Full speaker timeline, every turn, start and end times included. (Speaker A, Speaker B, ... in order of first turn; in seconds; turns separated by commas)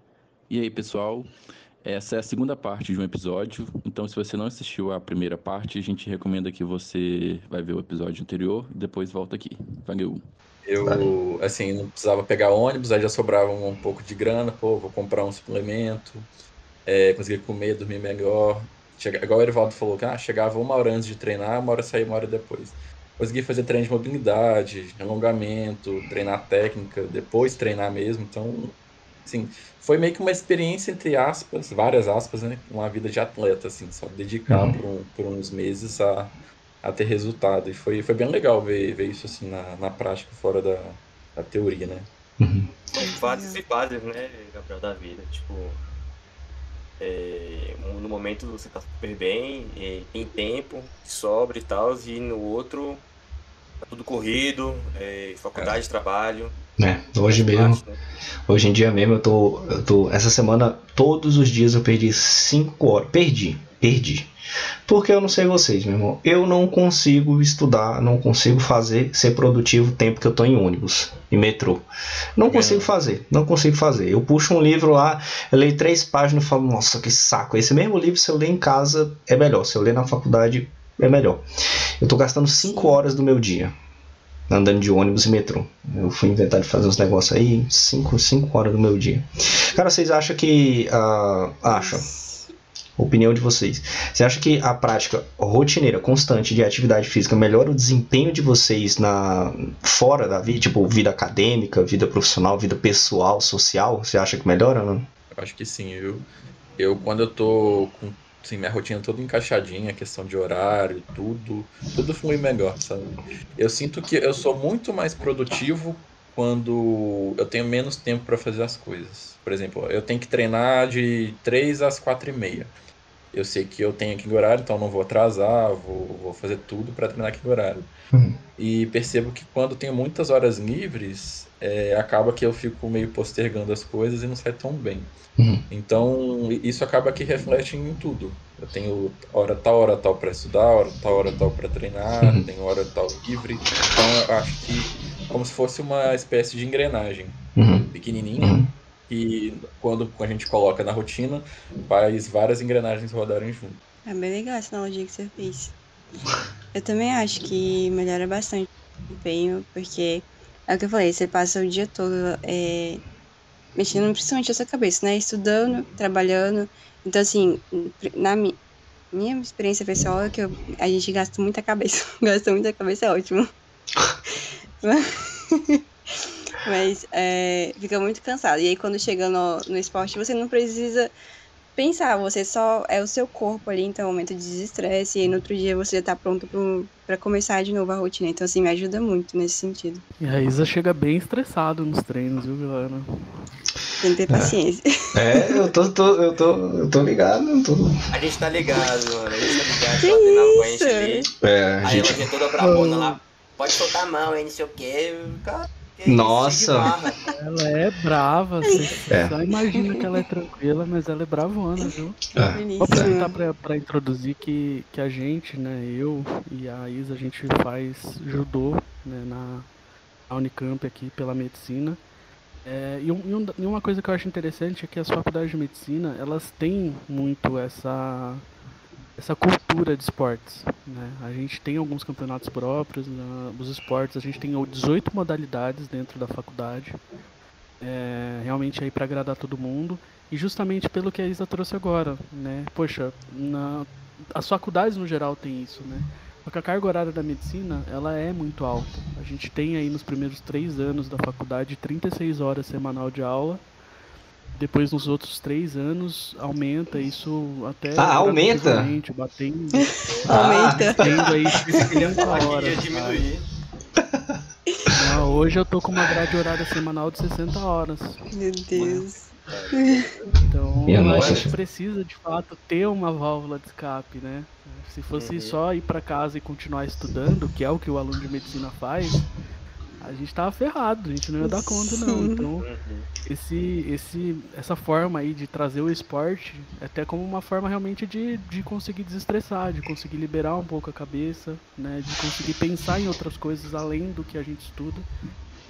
Speaker A: 0.5-1.3, Speaker A: 1.8-10.2, Speaker B: 10.6-16.3, Speaker C: 10.8-11.1, Speaker B: 16.9-42.1, Speaker C: 34.5-34.8, Speaker C: 42.4-42.7, Speaker D: 42.9-45.8, Speaker E: 43.0-43.6, Speaker D: 47.0-53.0, Speaker D: 53.8-56.5, Speaker C: 56.8-57.8, Speaker D: 57.3-58.0, Speaker C: 58.5-64.3, Speaker C: 64.8-81.5, Speaker B: 72.4-72.9, Speaker C: 82.0-83.7, Speaker E: 82.6-83.0, Speaker C: 84.5-92.1, Speaker E: 91.7-92.5, Speaker C: 93.0-105.1, Speaker B: 105.3-122.7, Speaker B: 123.3-127.9, Speaker C: 128.1-128.4, Speaker B: 128.6-135.1, Speaker C: 135.4-135.6, Speaker B: 135.7-147.4, Speaker C: 142.2-142.4, Speaker C: 147.6-148.7, Speaker B: 147.9-153.8, Speaker E: 154.1-155.7, Speaker E: 156.7-163.0, Speaker E: 163.7-168.6, Speaker E: 169.1-173.5, Speaker E: 174.8-181.1, Speaker E: 181.8-190.0, Speaker F: 190.2-193.1, Speaker E: 194.0-195.7, Speaker C: 194.3-194.5, Speaker C: 195.1-198.0, Speaker D: 198.1-201.3, Speaker E: 200.0-201.3, Speaker C: 201.4-202.2, Speaker D: 201.8-207.2, Speaker F: 202.6-203.2, Speaker C: 206.1-206.9, Speaker F: 207.3-212.2, Speaker C: 209.1-209.3, Speaker C: 212.3-213.1, Speaker E: 212.3-213.3, Speaker F: 212.8-219.7, Speaker F: 220.3-222.0, Speaker F: 222.6-228.4, Speaker F: 229.2-237.0, Speaker F: 237.8-253.6, Speaker F: 254.5-260.0, Speaker C: 258.0-258.9, Speaker D: 260.1-260.9, Speaker E: 260.2-261.1, Speaker C: 260.3-260.9, Speaker F: 260.5-263.2, Speaker D: 261.8-263.4, Speaker C: 264.0-264.4, Speaker F: 264.9-268.2, Speaker E: 268.3-270.1, Speaker F: 268.7-269.1, Speaker D: 269.5-270.3, Speaker F: 270.4-279.2, Speaker C: 270.9-271.5, Speaker D: 271.1-271.4, Speaker D: 275.2-275.6, Speaker F: 280.0-282.7, Speaker E: 281.4-282.4, Speaker D: 282.6-283.1, Speaker F: 283.3-295.1